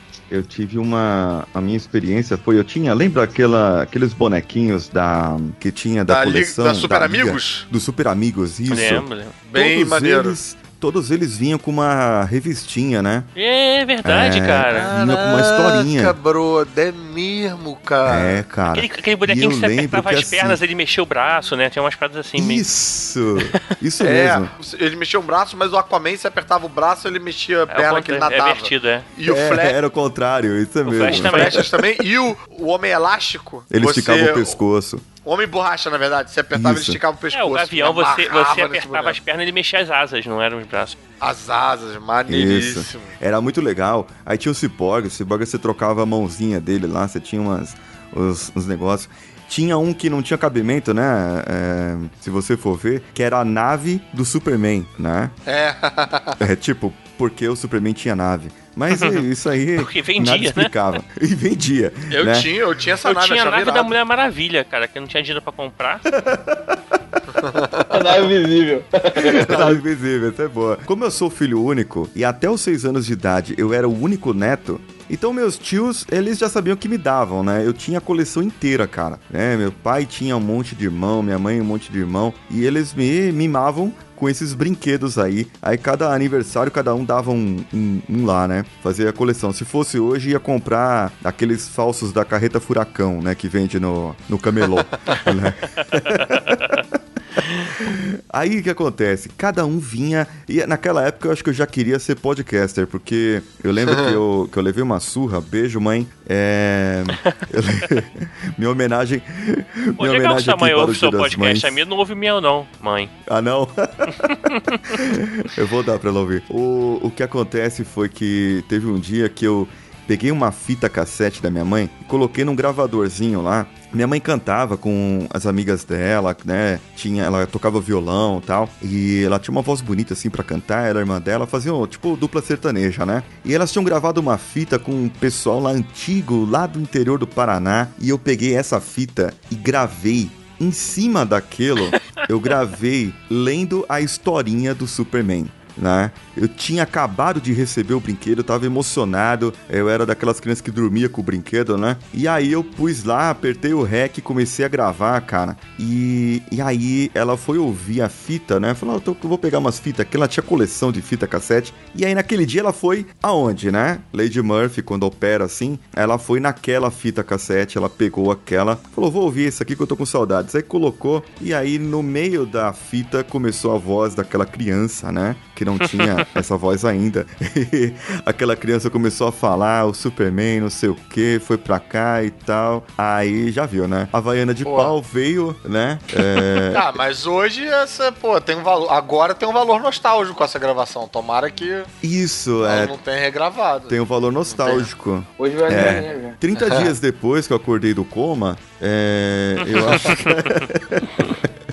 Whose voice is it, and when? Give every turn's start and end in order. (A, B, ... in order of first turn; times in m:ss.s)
0:00.3-0:13.3 A
0:06.1-0:07.6 B
0:08.7-0:09.4 C
0:09.5-0:10.4 B
0:13.4-0:14.9 C
0:14.0-0:16.2 A
0:14.7-0:18.4 B
0:18.1-0:20.6 A
0:18.7-0:22.6 C
0:22.4-0:24.5 A
0:24.0-0:29.8 B
0:27.7-0:29.1 C
0:29.2-0:31.6 A
0:30.9-0:31.6 C
0:31.0-0:34.6 B
0:33.7-0:35.1 A
0:35.2-0:39.2 B
0:36.5-0:37.0 A
0:37.3-0:41.0 C
0:41.2-0:43.1 B
0:42.3-0:55.4 A
0:55.5-0:56.4 B
0:56.4-1:02.5 A
0:58.9-0:59.2 C
0:59.8-1:00.7 C
1:02.1-1:03.9 B
1:03.0-1:06.0 C
1:06.1-1:07.2 A
1:07.3-1:08.2 B
1:07.9-1:09.8 D
1:09.2-1:51.8 A
1:09.4-1:09.8 B
1:43.9-1:44.2 B
1:50.0-1:53.1 C
1:53.3-3:06.8 A
1:54.5-1:54.8 C
3:04.6-3:04.9 B
3:06.6-3:11.9 B
3:12.0-3:12.9 A
3:12.6-3:14.0 B
3:13.9-3:21.5 A
3:14.5-3:14.9 B
3:15.4-3:16.4 D
3:16.6-3:16.9 B
3:19.7-3:20.3 C